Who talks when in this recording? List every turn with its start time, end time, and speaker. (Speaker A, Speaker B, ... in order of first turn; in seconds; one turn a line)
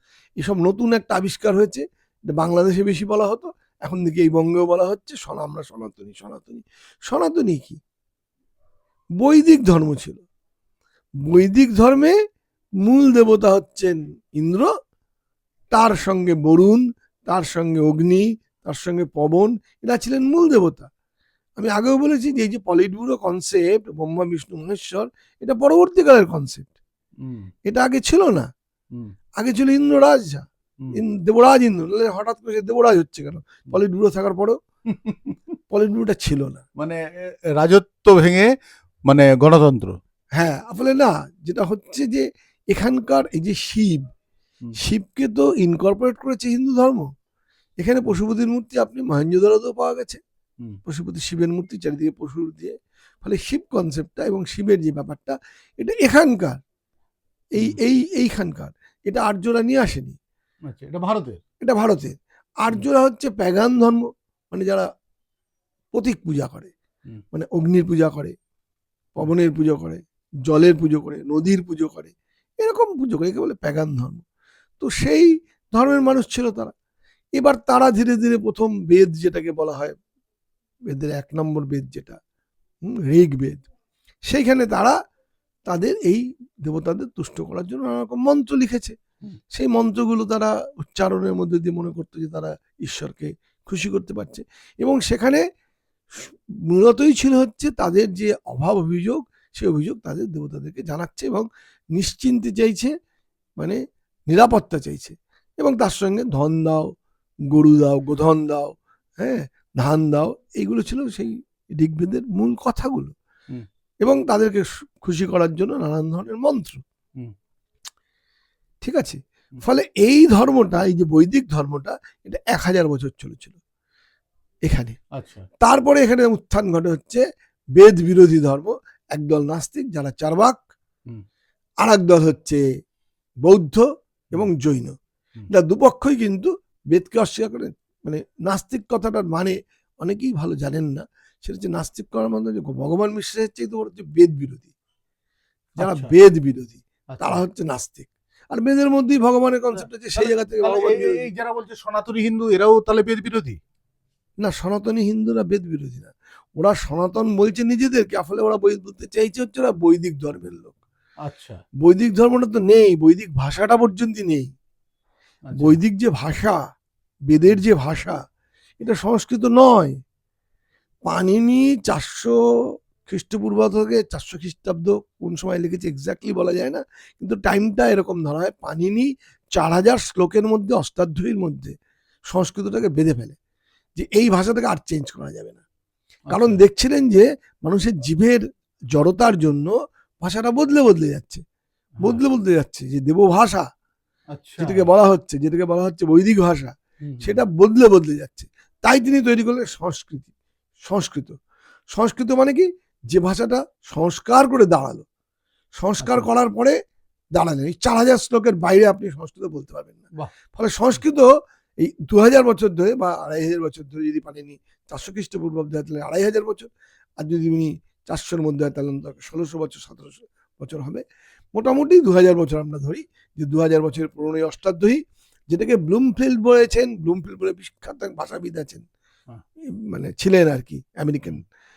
Speaker A: 0.4-7.8
Speaker A: 9.2-10.2
Speaker A: 11.2-12.1
Speaker A: 12.8-14.7
Speaker A: 15.7-20.9
Speaker A: 21.6-26.7
Speaker B: 27.2-27.5
Speaker A: 27.6-28.5
Speaker A: 29.4-34.6
Speaker B: 34.9-35.4
Speaker A: 35.7-36.6
Speaker B: 36.8-38.5
Speaker B: 39.1-40.0
Speaker A: 40.4-44.0
Speaker A: 44.8-47.1
Speaker A: 47.8-50.2
Speaker A: 50.9-56.6
Speaker A: 57.5-60.1
Speaker B: 60.7-61.4
Speaker A: 61.6-64.9
Speaker A: 65.9-66.7
Speaker A: 67.3-68.3
Speaker A: 69.2-74.2
Speaker A: 74.8-76.7
Speaker A: 77.4-79.9
Speaker A: 80.9-82.2
Speaker A: 82.9-83.7
Speaker A: 84.3-85.0
Speaker A: 85.7-89.0
Speaker A: 89.5-95.4
Speaker A: 96.1-102.9
Speaker A: 104.3-106.9
Speaker A: 107.5-113.1
Speaker A: 114.0-116.8
Speaker A: 118.8-123.6
Speaker A: 124.7-125.0
Speaker B: 125.1-125.4
Speaker A: 125.6-127.2
Speaker A: 127.8-130.6
Speaker A: 131.8-132.6
Speaker A: 133.4-134.9
Speaker A: 135.5-144.7
Speaker B: 145.8-146.1
Speaker A: 145.8-151.2
Speaker B: 147.1-147.4
Speaker B: 149.8-153.6
Speaker A: 154.4-160.8
Speaker B: 161.2-161.6
Speaker A: 161.8-164.5
Speaker B: 165.5-165.8
Speaker A: 165.6-166.6
Speaker A: 167.3-168.2
Speaker A: 168.8-169.9
Speaker A: 171.1-172.3
Speaker A: 173.0-181.7
Speaker A: 182.3-183.3
Speaker A: 184.0-185.6
Speaker B: 186.3-186.6
Speaker A: 186.3-188.4
Speaker A: 188.9-191.4
Speaker A: 192.0-193.7
Speaker B: 194.3-194.9
Speaker A: 194.6-200.3
Speaker B: 197.1-197.4
Speaker A: 200.8-201.3
Speaker A: 201.9-205.0
Speaker A: 205.8-206.8
Speaker B: 206.0-206.3
Speaker A: 207.3-210.0
Speaker A: 210.5-211.3
Speaker A: 211.8-216.7
Speaker A: 217.2-221.0
Speaker A: 221.5-225.0
Speaker A: 225.5-228.8
Speaker A: 229.9-231.4